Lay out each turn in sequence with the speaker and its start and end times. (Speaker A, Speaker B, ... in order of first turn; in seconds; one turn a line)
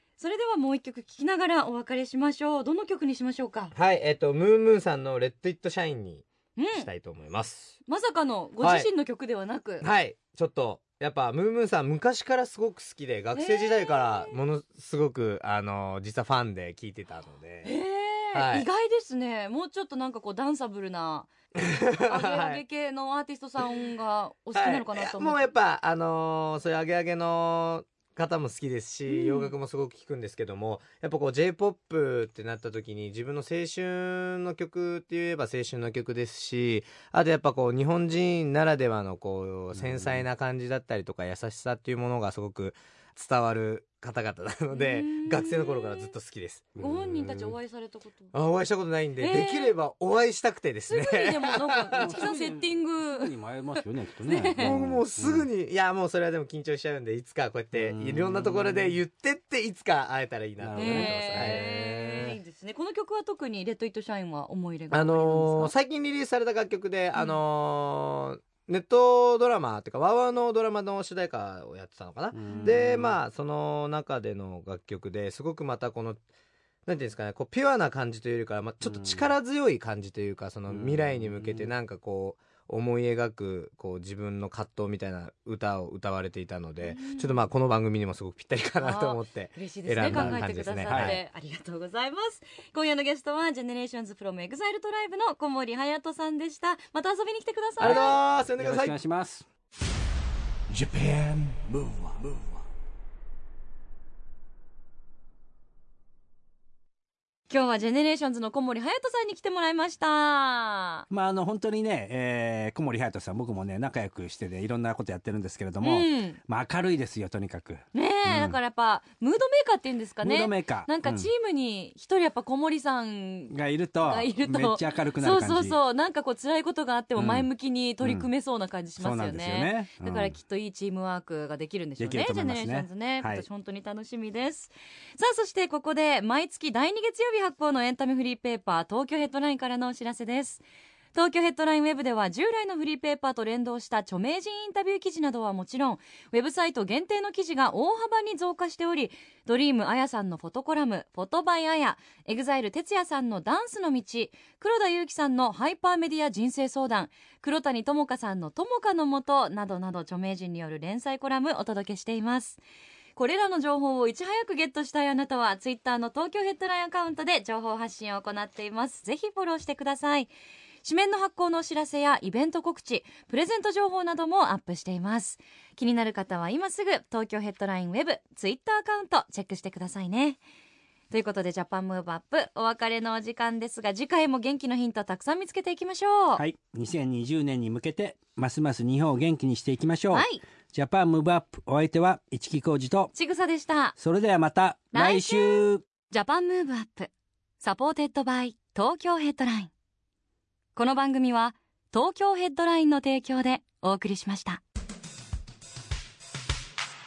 Speaker A: 0.2-3.7
Speaker B: 3.7-7.8
Speaker A: 6.6-6.9
Speaker A: 7.9-9.9
Speaker B: 8.6-8.9
Speaker B: 9.8-17.8
Speaker A: 13.3-14.4
Speaker A: 17.6-21.3
Speaker B: 18.3-18.7
Speaker B: 21.6-22.6
Speaker A: 21.9-25.4
Speaker B: 24.6-46.7
Speaker A: 29.1-29.5
Speaker C: 39.8-40.3
Speaker A: 44.7-46.1
Speaker C: 46.8-47.6
Speaker A: 46.8-48.3
Speaker B: 48.3-52.3
Speaker A: 49.2-49.8
Speaker A: 50.9-53.3
Speaker C: 51.9-55.5
Speaker A: 54.2-54.7
Speaker B: 54.6-61.6
Speaker C: 57.7-59.0
Speaker C: 60.6-62.4
Speaker A: 60.8-65.7
Speaker B: 64.9-76.2
Speaker C: 72.3-73.2
Speaker A: 72.5-72.8
Speaker B: 76.9-91.2
Speaker C: 78.8-79.3
Speaker C: 80.7-81.7
Speaker A: 86.8-87.5
Speaker A: 88.8-98.2
Speaker C: 90.0-91.2
Speaker B: 97.8-99.0
Speaker C: 97.8-99.5
Speaker D: 100.7-102.7
Speaker A: 107.5-111.1
Speaker C: 111.1-118.6
Speaker A: 115.8-116.4
Speaker A: 117.9-140.6
Speaker C: 120.2-121.3
Speaker C: 123.5-125.8
Speaker C: 127.2-127.5
Speaker C: 128.0-128.3
Speaker C: 129.0-130.4
Speaker C: 132.0-133.5
Speaker A: 141.1-162.6
Speaker A: 163.2-170.3
Speaker A: 170.8-180.4
Speaker A: 181.1-186.4
Speaker C: 186.3-193.1
Speaker A: 190.1-190.4
Speaker A: 193.1-194.0
Speaker C: 194.0-195.8
Speaker A: 194.9-199.7
Speaker A: 200.8-204.6